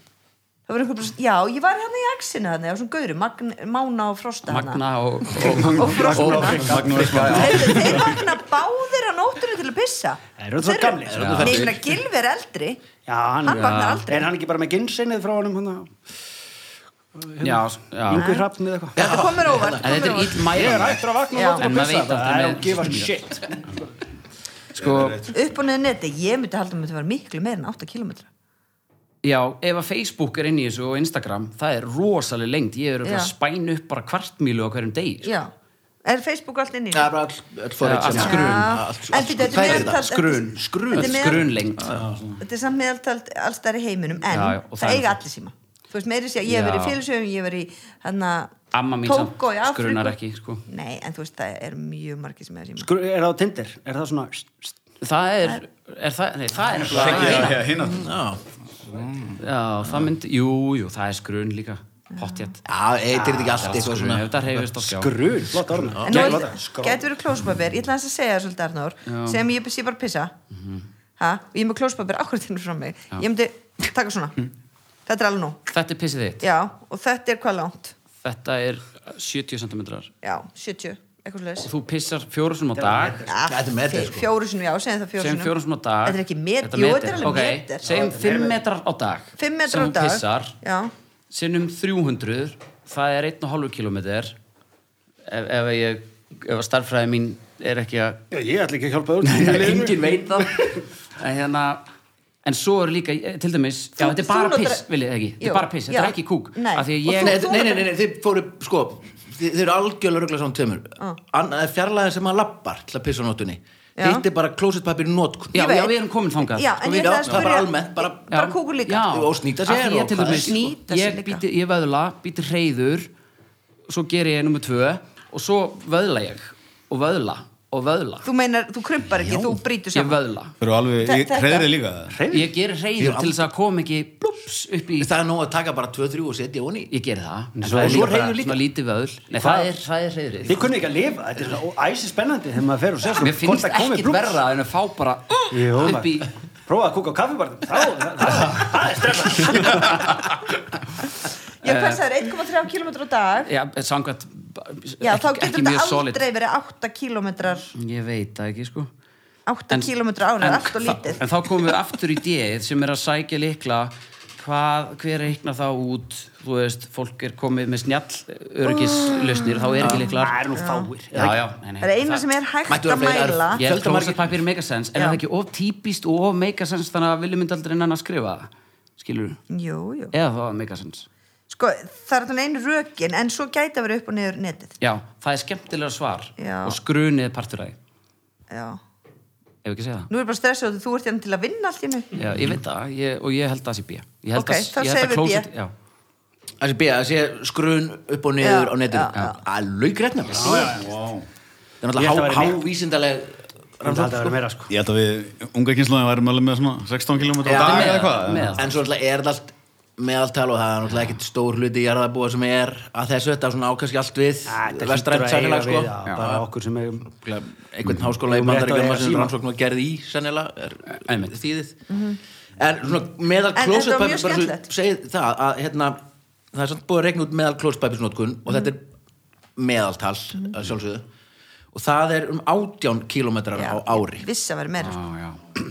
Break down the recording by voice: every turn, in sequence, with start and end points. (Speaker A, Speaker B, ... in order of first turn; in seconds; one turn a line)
Speaker A: 0.7-4.8
Speaker B: 4.5-7.8
Speaker A: 5.4-12.8
Speaker C: 5.9-7.7
Speaker D: 6.5-8.3
Speaker C: 10.4-11.4
Speaker E: 11.0-11.9
Speaker B: 11.1-11.6
Speaker C: 13.1-15.9
Speaker A: 13.4-14.3
Speaker B: 13.5-14.1
Speaker C: 17.1-19.0
Speaker B: 17.4-18.3
Speaker A: 18.1-20.5
Speaker E: 18.9-20.2
Speaker B: 19.5-23.2
Speaker C: 20.5-23.8
Speaker A: 21.3-21.7
Speaker B: 24.7-25.2
Speaker D: 24.8-25.4
Speaker A: 25.3-28.3
Speaker B: 29.2-35.3
Speaker A: 33.0-33.3
Speaker A: 35.2-35.5
Speaker A: 36.0-37.1
Speaker E: 36.9-42.1
Speaker B: 37.8-38.8
Speaker A: 38.2-41.5
Speaker B: 39.3-41.8
Speaker D: 41.9-42.4
Speaker A: 42.4-50.1
Speaker B: 44.3-45.2
Speaker B: 46.5-47.0
Speaker B: 48.7-50.6
Speaker A: 50.7-52.9
Speaker C: 52.8-54.8
Speaker B: 55.0-57.6
Speaker D: 56.8-58.1
Speaker E: 57.0-58.4
Speaker D: 58.9-59.4
Speaker B: 59.4-62.6
Speaker A: 62.2-62.5
Speaker E: 62.6-64.3
Speaker B: 63.1-65.2
Speaker C: 64.8-67.0
Speaker E: 66.0-66.2
Speaker A: 66.0-70.3
Speaker B: 66.1-66.5
Speaker B: 69.0-69.4
Speaker B: 70.5-70.8
Speaker A: 71.2-74.5
Speaker A: 75.0-75.6
Speaker B: 75.7-76.4
Speaker A: 76.4-77.9
Speaker B: 78.2-80.1
Speaker A: 80.2-81.7
Speaker B: 81.6-83.3
Speaker C: 82.7-83.4
Speaker A: 83.2-85.5
Speaker E: 83.4-84.3
Speaker B: 85.2-90.5
Speaker A: 86.0-87.8
Speaker C: 87.8-88.6
Speaker A: 89.4-90.9
Speaker B: 91.3-94.3
Speaker B: 95.2-98.2
Speaker C: 98.3-100.8
Speaker B: 99.2-101.8
Speaker B: 102.4-107.5
Speaker A: 104.0-104.8
Speaker A: 105.4-107.9
Speaker E: 107.2-115.6
Speaker A: 114.0-114.2
Speaker A: 115.5-116.0
Speaker B: 115.5-116.7
Speaker A: 116.5-119.0
Speaker E: 116.8-118.3
Speaker B: 118.3-123.1
Speaker E: 119.0-120.6
Speaker A: 120.3-121.4
Speaker B: 123.9-128.3
Speaker A: 128.2-130.2
Speaker B: 129.2-130.5
Speaker D: 130.6-132.2
Speaker A: 131.0-131.7
Speaker C: 132.1-132.5
Speaker B: 132.3-135.1
Speaker E: 133.0-133.4
Speaker E: 135.0-136.9
Speaker B: 136.9-140.7
Speaker C: 137.6-138.1
Speaker E: 137.8-138.6
Speaker C: 139.3-139.8
Speaker C: 140.4-144.4
Speaker B: 143.2-146.3
Speaker C: 145.5-150.1
Speaker B: 151.6-152.1
Speaker A: 151.6-153.5
Speaker B: 153.4-156.2
Speaker A: 155.0-157.7
Speaker B: 157.7-158.9
Speaker A: 159.5-161.2
Speaker B: 159.7-170.2
Speaker A: 168.6-170.9
Speaker E: 169.8-170.3
Speaker C: 170.1-171.3
Speaker B: 171.1-172.2
Speaker A: 171.8-173.6
Speaker E: 172.7-174.3
Speaker B: 173.6-179.4
Speaker A: 179.5-180.1
Speaker B: 180.1-181.1
Speaker A: 181.5-184.7
Speaker B: 184.8-187.8
Speaker A: 186.4-186.8
Speaker A: 188.5-188.8
Speaker B: 189.6-190.1
Speaker A: 190.1-192.1
Speaker B: 192.2-195.7
Speaker A: 194.3-195.5
Speaker E: 196.6-200.8
Speaker A: 198.4-199.4
Speaker C: 200.3-200.9
Speaker D: 200.6-201.2
Speaker E: 201.8-204.4
Speaker C: 201.9-202.6
Speaker C: 203.8-204.7
Speaker D: 204.7-208.6
Speaker E: 207.4-216.4
Speaker B: 207.5-208.7
Speaker C: 214.4-217.1
Speaker E: 217.1-221.8
Speaker C: 218.1-219.3
Speaker B: 220.9-221.3
Speaker A: 221.9-222.2
Speaker E: 222.6-226.0
Speaker A: 223.6-224.6
Speaker E: 226.5-228.9
Speaker E: 229.6-231.0
Speaker E: 231.7-234.2
Speaker A: 233.6-235.0
Speaker B: 234.8-235.4